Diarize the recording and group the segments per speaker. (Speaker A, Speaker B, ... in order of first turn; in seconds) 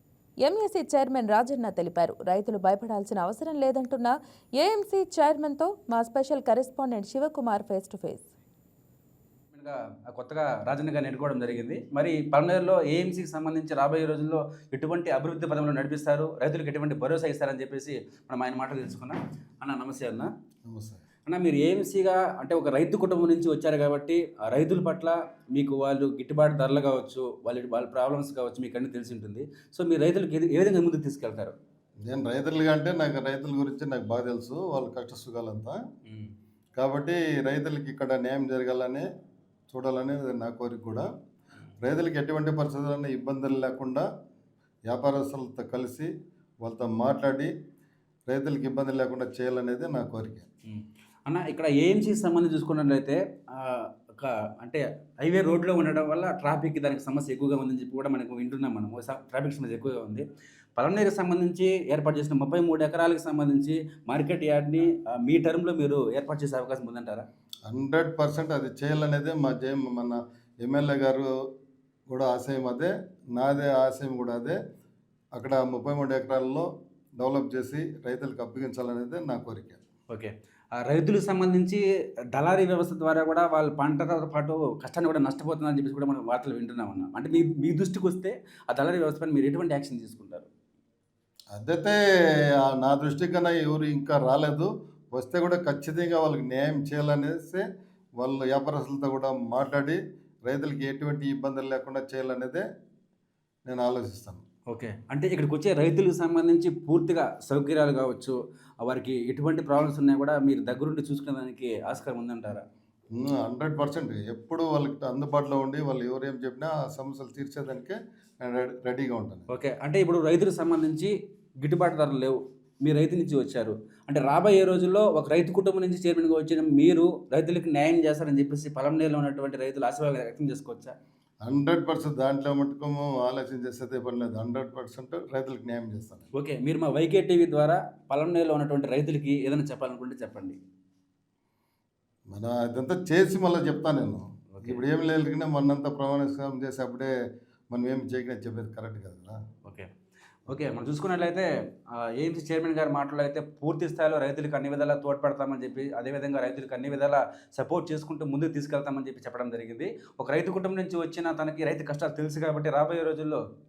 Speaker A: 0.4-8.3
Speaker B: 9.5-20.3, 21.3-31.5, 50.7-60.2, 60.8-67.2, 80.1-81.8, 82.3-90.5, 104.7-112.6, 119.5-130.9, 136.3-140.6, 144.5-144.8, 150.5-163.4
Speaker C: 20.7-21.0, 32.1-35.8, 36.8-39.0, 39.7-41.1, 41.8-44.0, 44.9-46.1, 46.6-47.5, 48.3-50.5, 67.7-71.3, 72.1-74.6, 75.3-76.7, 77.2-79.8, 91.5-92.0, 92.6-97.6, 98.2-102.6, 103.7-104.4, 113.1-119.5, 131.4-136.2, 142.3-147.1, 147.7-149.4